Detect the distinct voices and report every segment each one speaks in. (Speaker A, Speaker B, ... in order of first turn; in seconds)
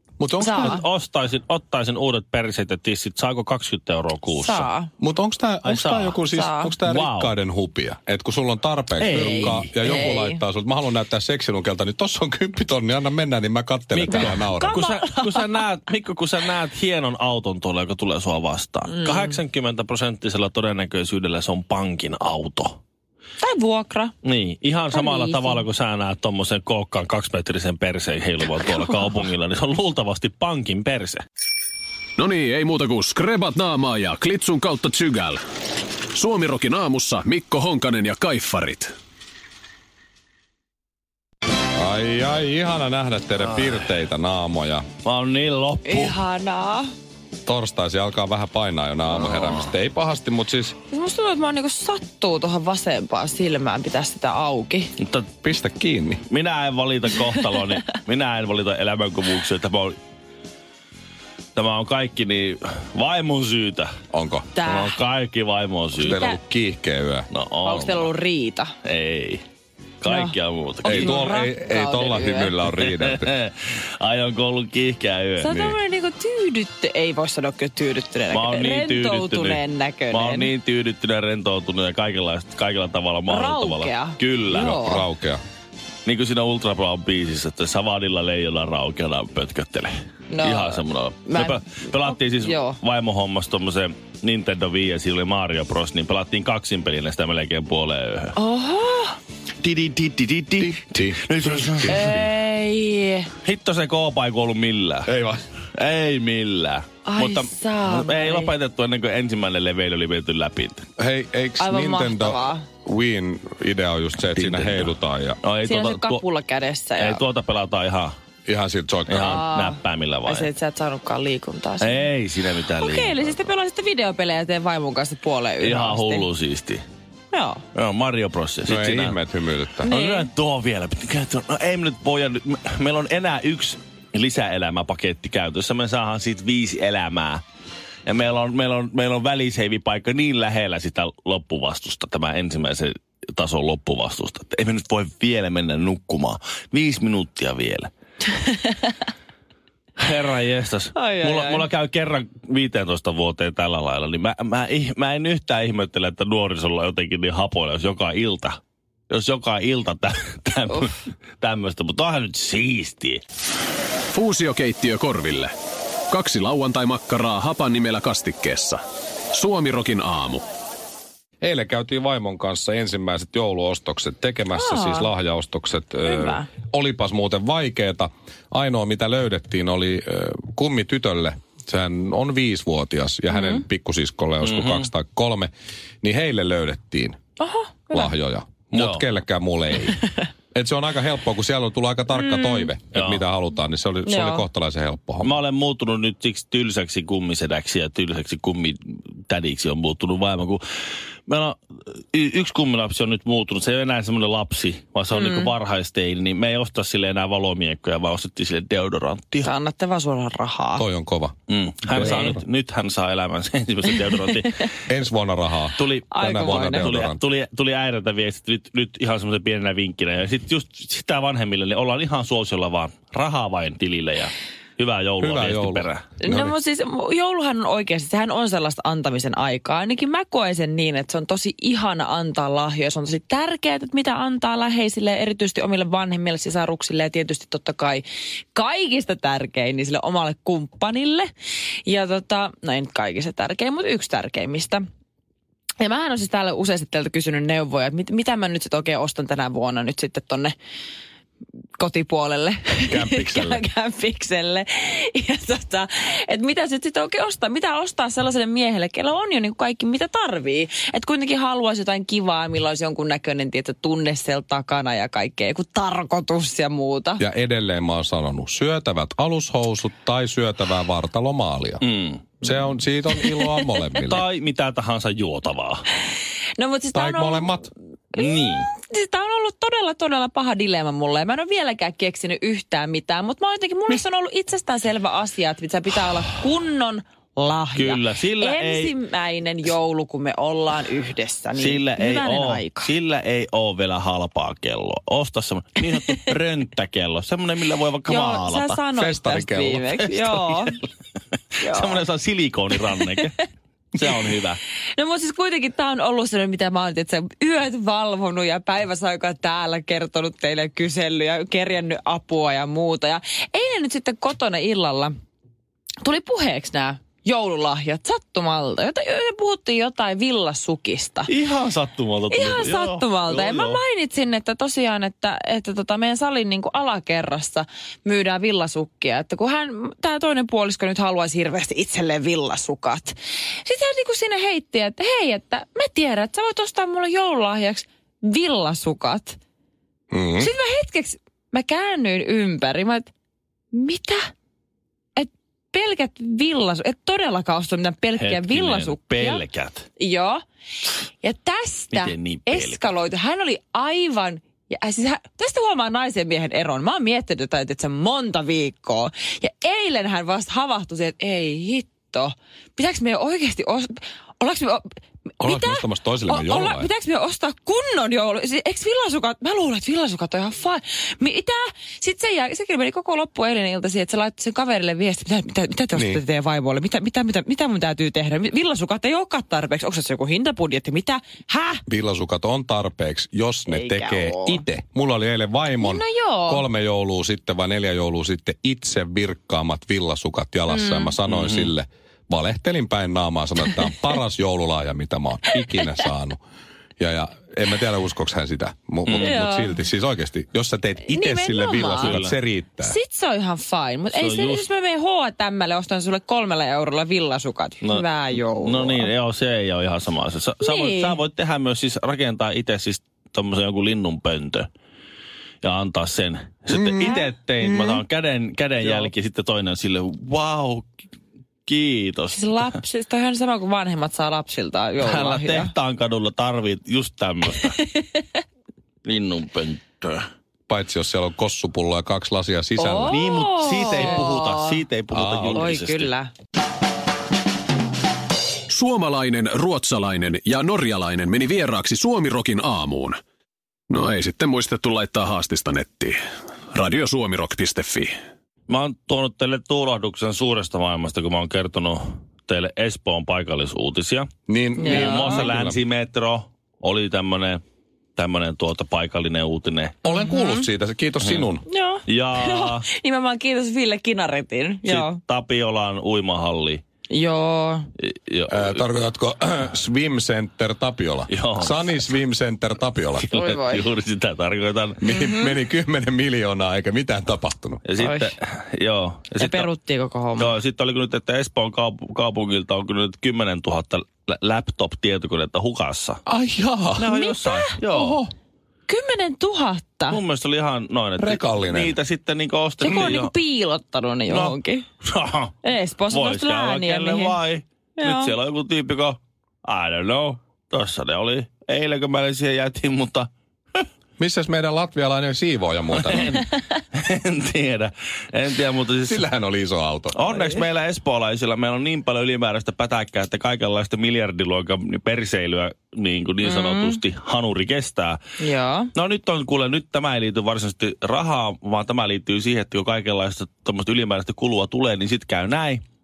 Speaker A: 0.2-0.8, 5.0-14.8, 41.8-44.8, 47.4-50.8, 55.4-56.2, 64.1-64.5, 65.9-67.3, 70.8-73.3, 84.5-85.4, 100.6-102.2, 105.0-105.4, 111.0-115.4, 118.5-119.4, 128.7-129.9, 171.4-185.5, 186.0-187.2, 187.9-190.0, 190.5-195.3, 210.8-211.3, 211.9-212.4, 214.9-217.2, 225.2-226.5, 252.9-253.6, 267.2-271.8, 272.4-274.2, 276.9-277.7, 298.9-300.1, 340.1-340.5, 365.4-366.9, 375.9-376.2, 381.9-396.4, 397.0-402.9, 430.7-433.2, 435.1-435.7, 454.5-455.8, 460.0-461.6, 468.5-473.3, 475.0-477.8, 486.3-487.1, 487.9-488.2, 491.2-492.0, 504.2-506.4, 509.0-510.2
Speaker B: 0.4-0.8, 4.3-4.9, 6.3-6.7, 9.1-10.4, 14.1-15.6, 18.9-19.3, 23.4-24.1, 24.9-25.6, 28.8-29.2, 45.9-46.9, 50.9-54.9, 64.5-65.0, 66.0-66.4, 67.6-68.7, 70.0-70.3, 70.8-72.5, 75.4-80.5, 83.3-85.0, 90.3-92.8, 98.3-99.2, 101.9-103.3, 107.0-108.5, 111.6-112.7, 115.6-117.2, 119.2-122.1, 122.8-126.3, 127.3-127.6, 129.8-130.3, 148.3-148.9, 150.9-151.7, 174.5-175.1, 176.0-176.5, 183.3-183.6, 187.4-188.1, 192.1-192.7, 194.0-194.4, 205.1-205.5, 209.4-210.8, 212.0-212.3, 216.1-216.9, 226.2-241.3, 241.8-244.8, 245.8-250.5, 251.8-267.2, 273.2-273.7, 276.6-292.9, 298.1-300.8, 301.6-302.0, 304.9-315.1, 316.0-321.3, 322.3-339.4, 340.4-343.1, 343.7-344.3, 345.1-349.4, 350.0-350.4, 351.2-381.8, 383.7-384.6, 385.8-386.6, 390.7-391.1, 399.2-399.8, 401.1-402.2, 402.8-409.1, 410.6-411.2, 417.0-417.2, 422.3-425.7, 427.5-428.3, 432.8-434.8, 435.5-436.3, 454.8-455.5, 460.1-460.7, 461.7-465.2, 467.1-467.9, 473.3-473.9, 475.1-475.5, 478.0-478.3, 479.4-480.5, 487.1-488.2, 488.9-490.2, 492.8-494.8, 495.6-497.4, 498.0-498.3, 516.4-517.0, 518.4-518.9
Speaker C: 0.5-4.7, 5.6-6.2, 6.8-7.3, 9.0-9.9, 13.9-22.8, 24.2-31.2, 43.4-43.8, 45.0-46.2, 49.1-49.6, 55.0-55.3, 56.3-60.0, 61.5-63.9, 64.6-66.2, 67.3-68.1, 68.8-69.4, 70.0-71.3, 72.7-75.8, 78.3-84.7, 86.0-98.3, 99.6-102.2, 103.4-105.1, 105.7-110.8, 114.2-116.2, 117.0-118.1, 119.1-120.5, 121.8-123.4, 125.6-126.8, 127.7-129.2, 129.8-137.4, 138.1-147.9, 150.0-158.6, 159.1-163.2, 184.4-184.9, 188.7-189.1, 192.9-193.2, 195.2-200.6, 201.3-209.5, 211.5-214.7, 215.8-226.0, 271.8-272.3, 274.0-275.9, 278.2-278.7, 287.7-288.9, 291.5-298.8, 300.2-300.7, 301.6-303.4, 303.9-304.6, 321.3-323.8, 348.2-349.9, 351.9-353.0, 391.3-391.7, 399.1-399.3, 401.8-402.4, 404.1-404.6, 407.8-414.7, 415.6-420.9, 421.6-422.7, 425.0-427.8, 429.0-430.2, 433.1-436.1, 448.7-454.3, 454.8-457.6, 458.1-460.0, 461.2-461.5, 462.1-462.9, 464.8-466.8, 468.0-468.9, 471.3-472.1, 473.1-475.0, 477.8-479.7, 480.4-486.2, 487.0-488.2, 490.1-493.3, 494.3-495.5, 496.1-503.3, 505.9-509.3, 510.1-518.2, 518.9-525.8
Speaker D: 32.2-35.4, 36.1-38.9, 164.1-165.5, 166.1-168.8, 169.3-170.4, 438.7-443.2, 443.9-446.2, 446.7-448.1